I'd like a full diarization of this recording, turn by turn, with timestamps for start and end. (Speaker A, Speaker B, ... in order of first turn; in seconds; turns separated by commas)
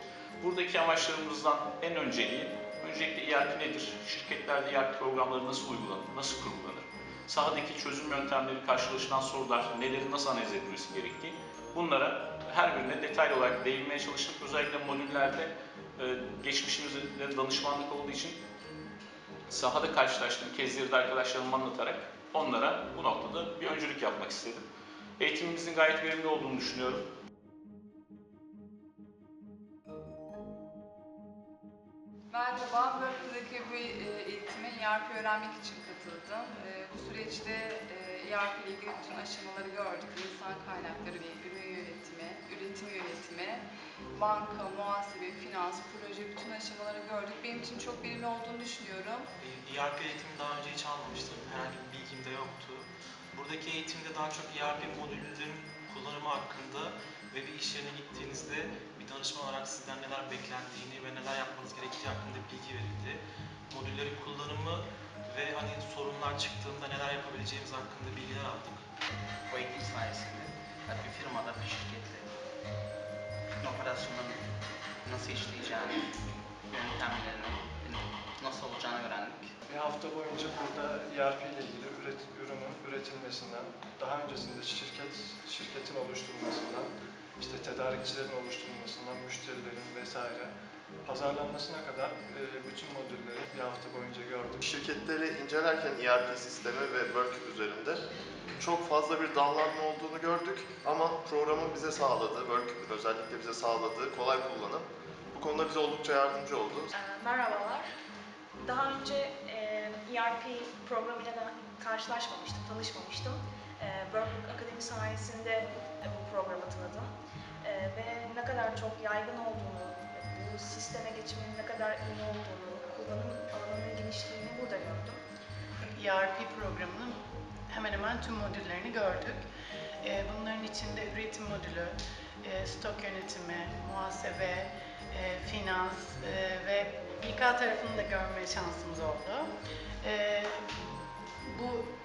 Speaker A: 0.4-18.4, Speaker A: 19.5-24.6, Speaker A: 25.2-27.1, Speaker B: 32.3-49.3, Speaker C: 49.4-68.9, Speaker D: 69.5-72.3, Speaker D: 73.6-74.5, Speaker D: 75.0-79.5, Speaker E: 79.7-90.5, Speaker E: 91.0-94.7, Speaker F: 94.6-98.0, Speaker F: 98.6-106.9, Speaker G: 107.0-107.9, Speaker G: 108.6-125.2, Speaker H: 125.9-127.2, Speaker H: 127.7-129.4, Speaker H: 130.0-139.5, Speaker H: 140.0-140.7, Speaker H: 141.4-141.9